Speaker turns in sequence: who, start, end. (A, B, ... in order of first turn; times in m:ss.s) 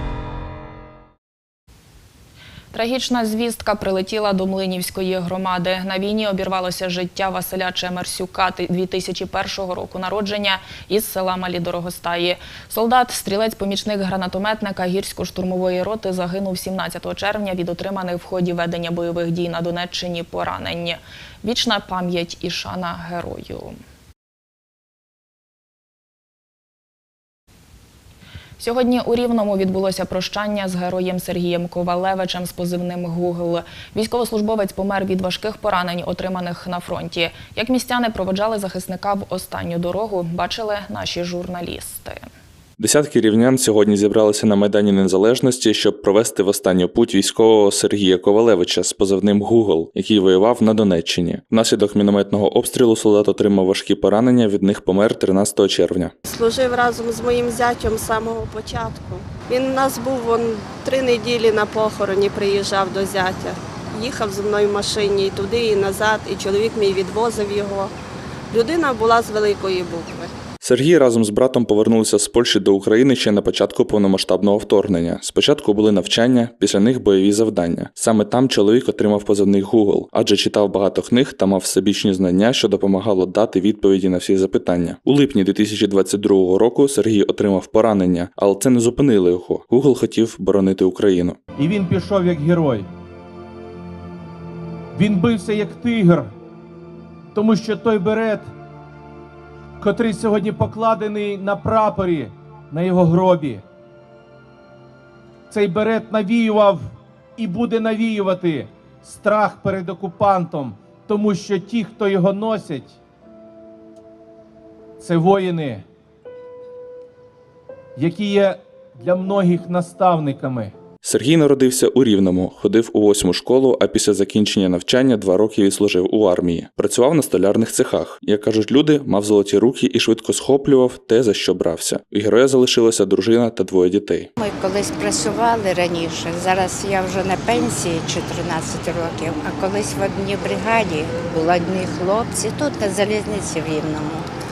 0:02.7-0:23.8 A
0:28.6-0:42.2 A
0:42.8-0:56.1 B
0:56.3-1:07.9 C
1:08.5-1:10.3 C
1:10.6-1:31.4 B
1:31.6-1:32.9 D
1:34.9-1:36.3 D
1:37.3-1:38.5 D
1:39.8-1:43.6 D
1:45.5-1:53.0 D
1:55.0-1:55.8 D
1:58.0-2:00.7 D
2:01.0-2:14.3 B
2:14.4-2:24.3 E